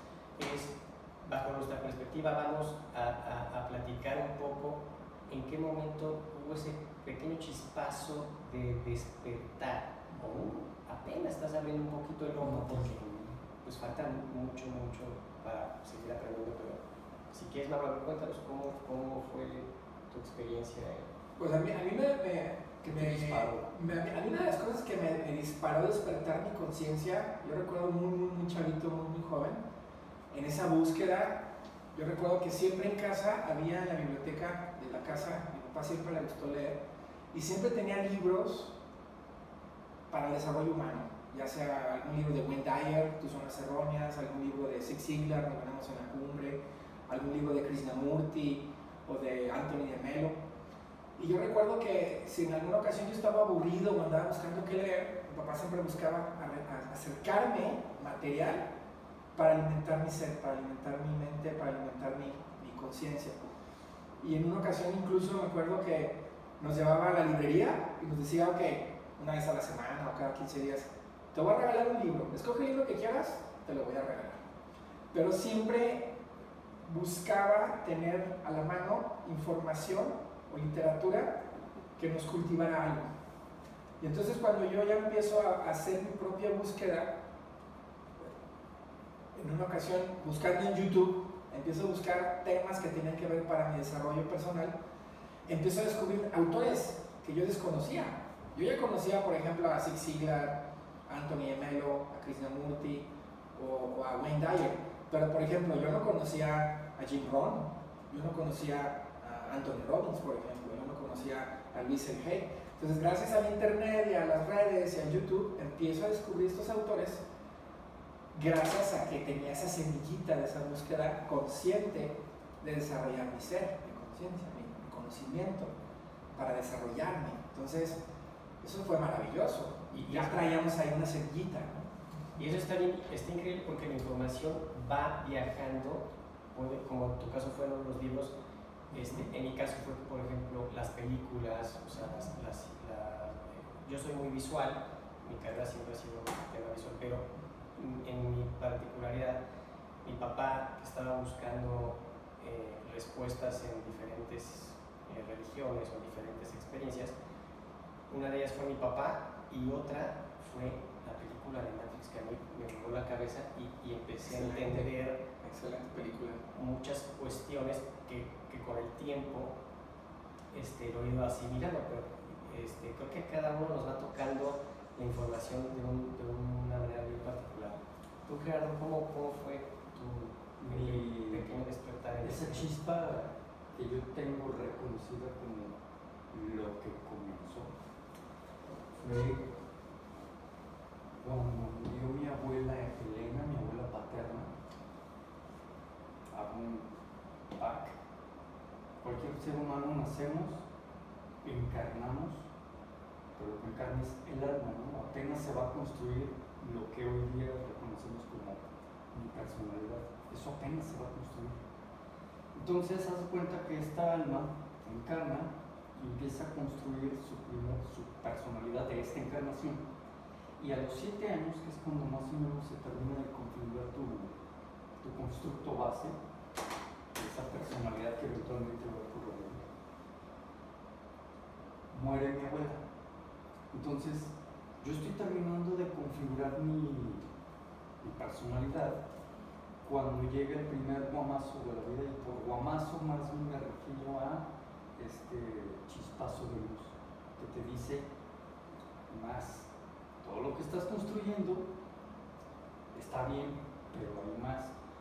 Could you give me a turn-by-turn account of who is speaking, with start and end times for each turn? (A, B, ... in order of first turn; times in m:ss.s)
0:00.4-0:13.0 A
0:12.4-0:13.4 B
0:13.6-0:21.0 A
0:21.4-0:29.6 C
0:22.8-0:23.7 B
0:30.3-0:36.8 C
0:37.3-0:38.7 C
0:40.1-0:50.3 C
0:51.2-0:58.6 C
0:59.3-1:03.5 C
1:04.2-1:14.4 C
1:15.1-1:16.1 C
1:16.8-1:21.4 C
1:22.0-1:23.0 C
1:24.0-1:27.2 C
1:29.3-1:34.7 C
1:35.5-1:57.2 C
1:58.3-2:05.7 C
2:06.4-2:08.0 C
2:08.6-2:11.9 C
2:09.9-2:10.5 A
2:12.4-2:18.3 A
2:18.9-2:29.4 A
2:30.0-2:37.1 A
2:38.1-2:45.2 A
2:44.2-2:44.9 C
2:45.4-2:46.4 C
2:46.5-2:49.5 A
2:50.5-3:02.7 A
3:00.6-3:01.5 B
3:02.2-3:05.7 B
3:06.3-3:07.7 B
3:09.0-3:09.5 B
3:11.2-3:14.5 B
3:16.3-3:16.9 B
3:17.5-3:18.0 B
3:19.0-3:20.6 B
3:21.4-3:22.5 B
3:23.4-3:31.6 B
3:32.5-3:39.8 B
3:40.6-3:44.3 B
3:45.0-3:46.2 B
3:47.1-3:49.6 B
3:51.9-3:52.8 B
3:53.7-3:57.2 B
3:58.0-3:59.0 B
3:59.8-4:08.1 B
4:09.1-4:09.7 B
4:10.2-4:11.7 B
4:12.9-4:14.7 B